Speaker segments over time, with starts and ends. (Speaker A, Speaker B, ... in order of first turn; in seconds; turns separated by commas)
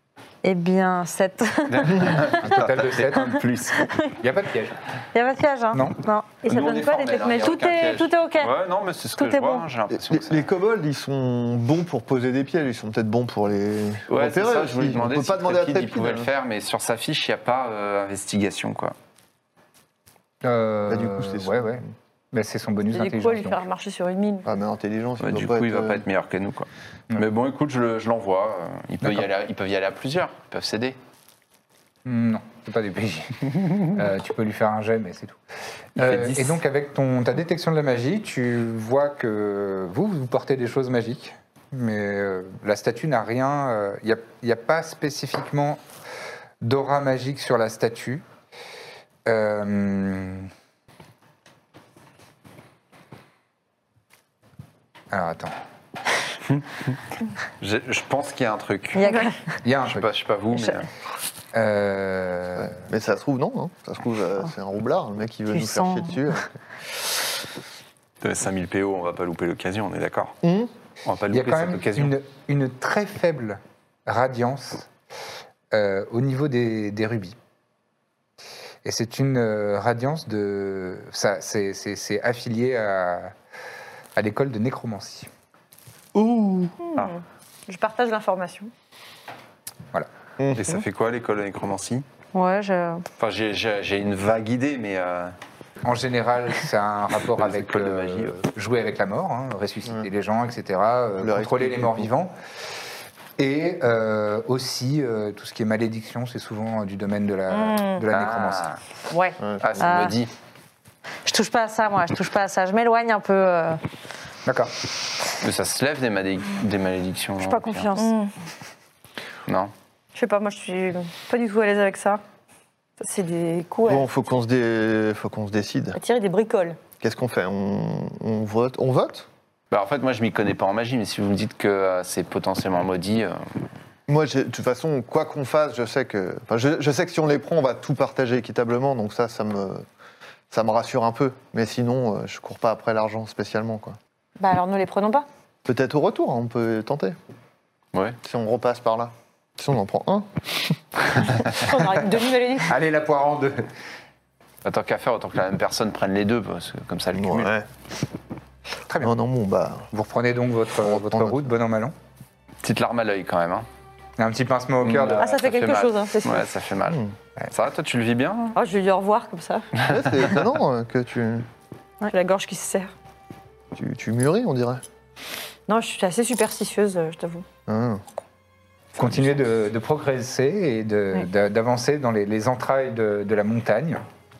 Speaker A: 0.4-2.4, Speaker B: 1.7-3.9, Speaker C: 2.4-3.5, Speaker A: 3.8-4.1, Speaker C: 4.2-4.8, Speaker A: 5.1-8.5, Speaker C: 5.7-6.0, Speaker B: 6.4-10.5, Speaker D: 6.5-7.6, Speaker A: 9.2-9.6, Speaker E: 9.9-16.3, Speaker B: 14.1-18.9, Speaker C: 20.4-23.6, Speaker E: 20.9-21.8, Speaker D: 22.9-24.5, Speaker E: 24.4-26.0, Speaker B: 25.2-31.0, Speaker C: 29.0-29.3, Speaker C: 32.0-35.4, Speaker C: 36.0-45.8, Speaker B: 36.0-36.6, Speaker C: 46.6-48.2, Speaker C: 49.2-50.5, Speaker C: 55.1-55.5, Speaker B: 57.6-59.1, Speaker A: 58.9-59.3, Speaker C: 59.6-60.1, Speaker B: 59.8-60.9, Speaker C: 61.5-62.8, Speaker E: 62.6-66.5, Speaker A: 65.5-66.3, Speaker B: 68.2-70.3, Speaker E: 70.4-70.7, Speaker B: 71.0-72.1, Speaker C: 71.3-74.9, Speaker C: 75.7-77.3, Speaker C: 78.8-83.3, Speaker C: 84.2-85.3, Speaker B: 86.2-87.1, Speaker D: 86.8-88.7, Speaker E: 90.4-90.7, Speaker B: 90.5-92.0, Speaker A: 92.3-93.0, Speaker B: 93.2-95.3, Speaker C: 95.8-102.3, Speaker B: 97.2-98.4, Speaker E: 101.2-102.1, Speaker C: 103.4-108.8, Speaker D: 107.5-108.0, Speaker B: 108.1-108.7, Speaker D: 109.1-109.4, Speaker E: 109.4-109.8, Speaker B: 109.6-110.3, Speaker A: 109.8-110.1, Speaker A: 111.2-113.8, Speaker C: 114.5-114.7, Speaker B: 115.4-117.9, Speaker A: 117.4-118.1, Speaker D: 118.0-118.3, Speaker B: 119.5-119.7, Speaker D: 120.1-122.2, Speaker D: 123.0-124.1, Speaker E: 123.9-126.0, Speaker D: 125.9-126.8, Speaker E: 127.0-129.3, Speaker B: 129.7-133.4, Speaker E: 134.1-139.8, Speaker E: 140.5-144.0, Speaker D: 144.4-145.3, Speaker E: 145.7-147.2, Speaker E: 148.2-150.8, Speaker D: 151.5-152.8, Speaker C: 152.6-153.7, Speaker B: 154.6-157.5, Speaker E: 157.1-157.7, Speaker C: 158.9-159.1, Speaker E: 159.0-159.9, Speaker C: 159.9-161.9, Speaker E: 160.8-161.5, Speaker B: 162.6-163.7, Speaker C: 164.2-165.3, Speaker B: 164.8-168.6, Speaker D: 165.2-166.5, Speaker E: 166.9-167.1, Speaker D: 168.5-169.7, Speaker B: 169.8-170.2, Speaker E: 169.8-171.5, Speaker D: 172.1-172.9, Speaker E: 173.7-174.8, Speaker D: 175.7-177.4, Speaker E: 177.7-178.0, Speaker C: 178.9-184.0